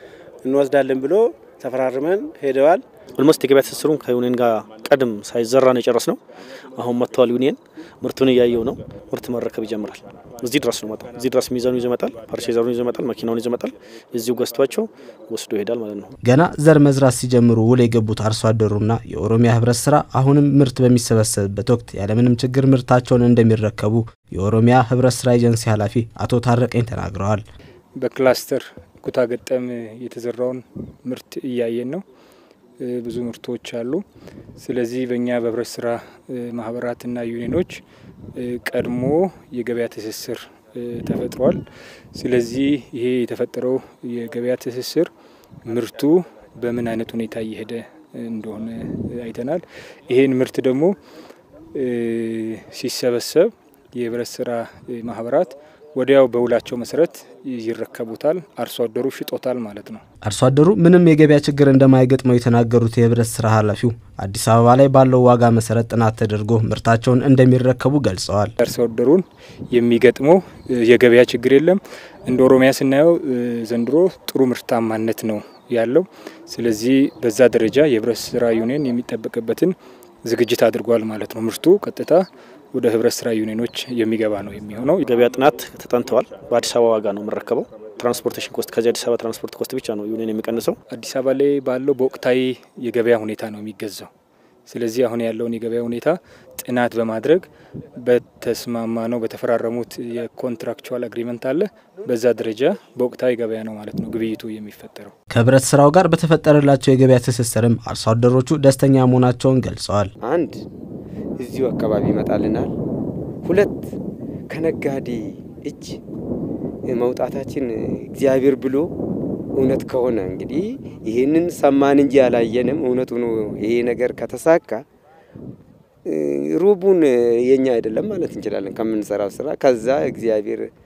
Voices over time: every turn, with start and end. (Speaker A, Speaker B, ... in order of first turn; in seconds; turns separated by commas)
Speaker A: 0.4-2.8, Speaker B: 3.2-6.2, Speaker B: 6.8-16.1, Speaker C: 16.2-27.4, Speaker D: 28.0-32.0, Speaker D: 32.8-34.0, Speaker D: 34.6-37.8, Speaker D: 38.4-41.6, Speaker D: 42.1-45.1, Speaker D: 45.7-50.9, Speaker D: 51.7-60.0, Speaker C: 60.2-68.5, Speaker D: 68.6-85.0, Speaker B: 85.0-90.8, Speaker D: 90.9-94.1, Speaker D: 94.7-97.5, Speaker D: 98.0-105.1, Speaker C: 105.3-110.1, Speaker E: 110.2-110.6, Speaker E: 111.4-112.7, Speaker E: 113.5-113.8, Speaker E: 114.5-116.0, Speaker E: 116.9-118.9, Speaker E: 119.6-124.8, Speaker E: 126.1-130.7